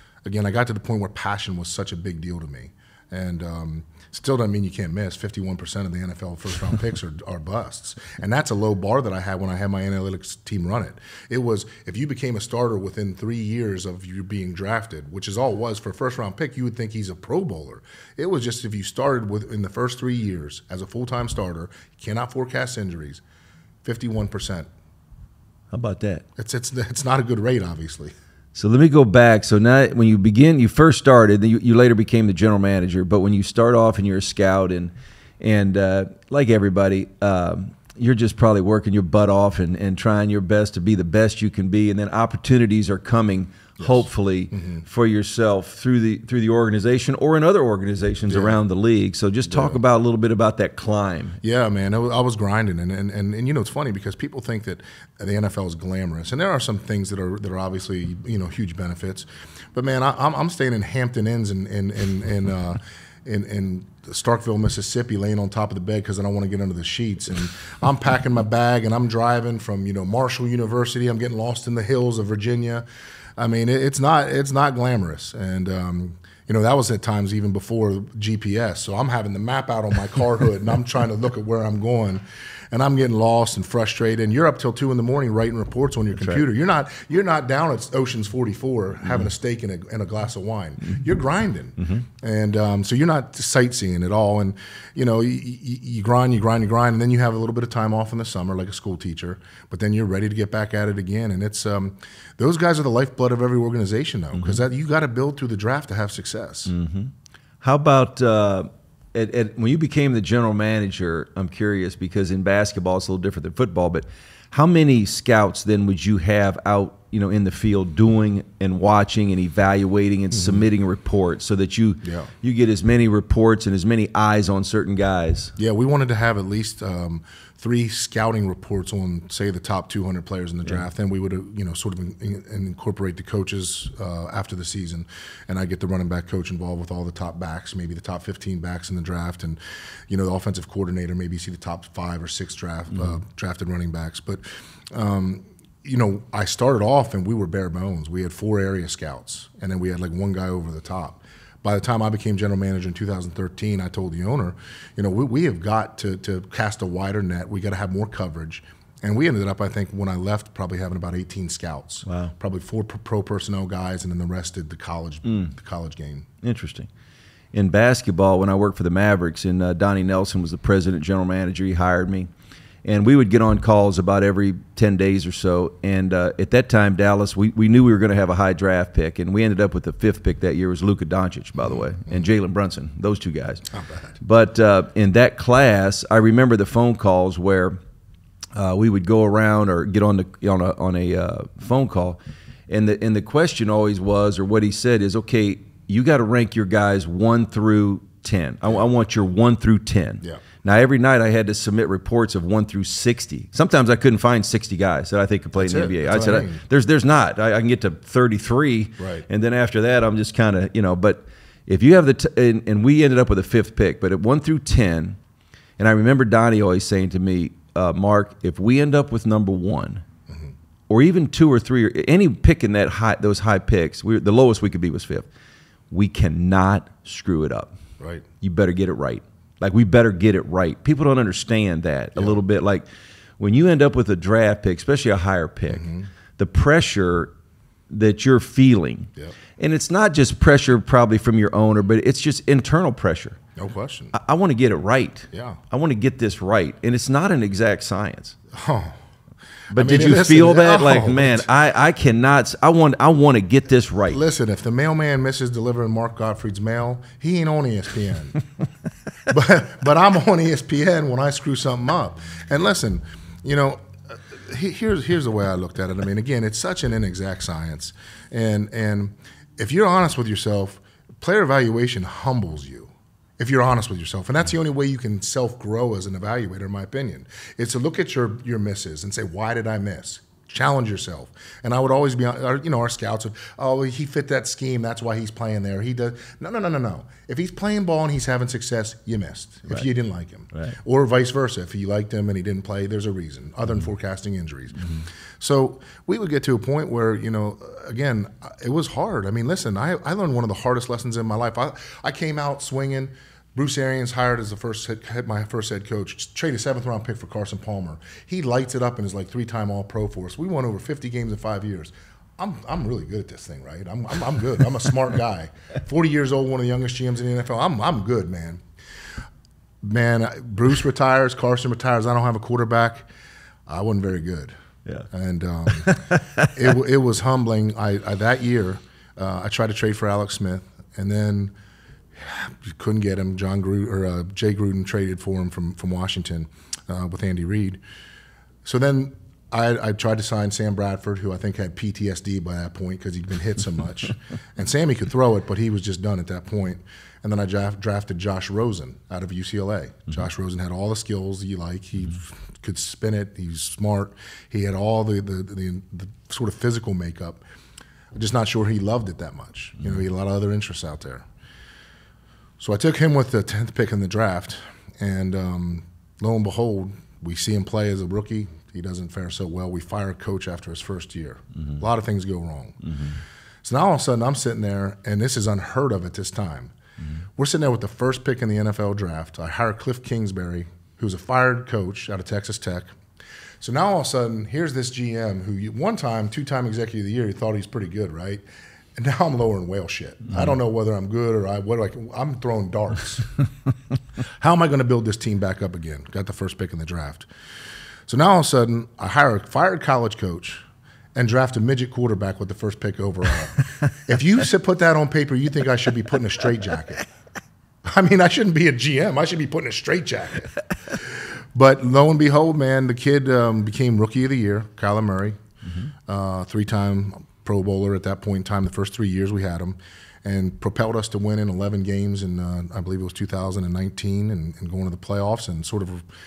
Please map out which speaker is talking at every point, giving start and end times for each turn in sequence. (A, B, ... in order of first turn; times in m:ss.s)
0:00.2-0:23.2 A
0:23.8-0:24.7 A
0:25.7-0:26.2 B
0:26.4-0:28.1 A
0:28.6-0:51.4 B
0:43.8-0:44.8 A
0:48.3-0:48.6 A
0:49.5-0:49.8 A
0:51.4-1:12.9 A
1:13.4-1:46.7 A
1:44.3-1:44.6 B
1:46.7-2:05.5 B
2:00.3-2:00.7 A
2:02.0-2:02.3 A
2:05.6-2:46.3 A
2:42.1-2:42.3 B
2:45.3-2:45.5 B
2:46.4-2:46.9 B
2:47.5-2:52.3 B
2:52.8-3:03.6 B
3:03.7-3:04.1 A
3:04.2-3:07.8 B
3:08.6-3:35.2 B
3:25.6-3:26.6 A
3:29.0-3:29.2 A
3:35.8-3:40.0 B
3:40.9-3:45.3 B
3:45.9-3:47.8 B
3:48.0-3:48.2 A
3:48.4-3:52.9 B
3:53.4-3:57.3 B
3:55.7-3:56.1 A
3:57.9-4:03.4 B
4:03.6-4:04.1 A
4:04.1-4:08.4 B
4:05.3-4:05.6 A
4:08.5-4:09.0 A
4:09.7-4:14.2 B
4:09.7-4:11.5 A
4:14.1-4:18.4 A
4:19.3-5:18.6 A
4:50.5-4:50.8 B
5:19.8-5:23.1 A
5:23.7-5:24.5 A
5:25.1-5:31.5 A
5:25.7-5:26.5 B
5:32.2-5:37.8 A
5:38.6-5:57.4 A
5:58.2-6:01.3 A
6:02.6-6:12.9 A
6:12.8-6:13.2 B
6:13.6-6:16.7 A
6:17.4-6:23.0 A
6:23.6-6:28.4 A
6:29.0-6:33.3 A
6:34.4-6:37.3 A
6:38.1-6:40.6 A
6:41.2-6:47.0 A
6:47.8-6:55.4 A
6:56.1-7:06.1 A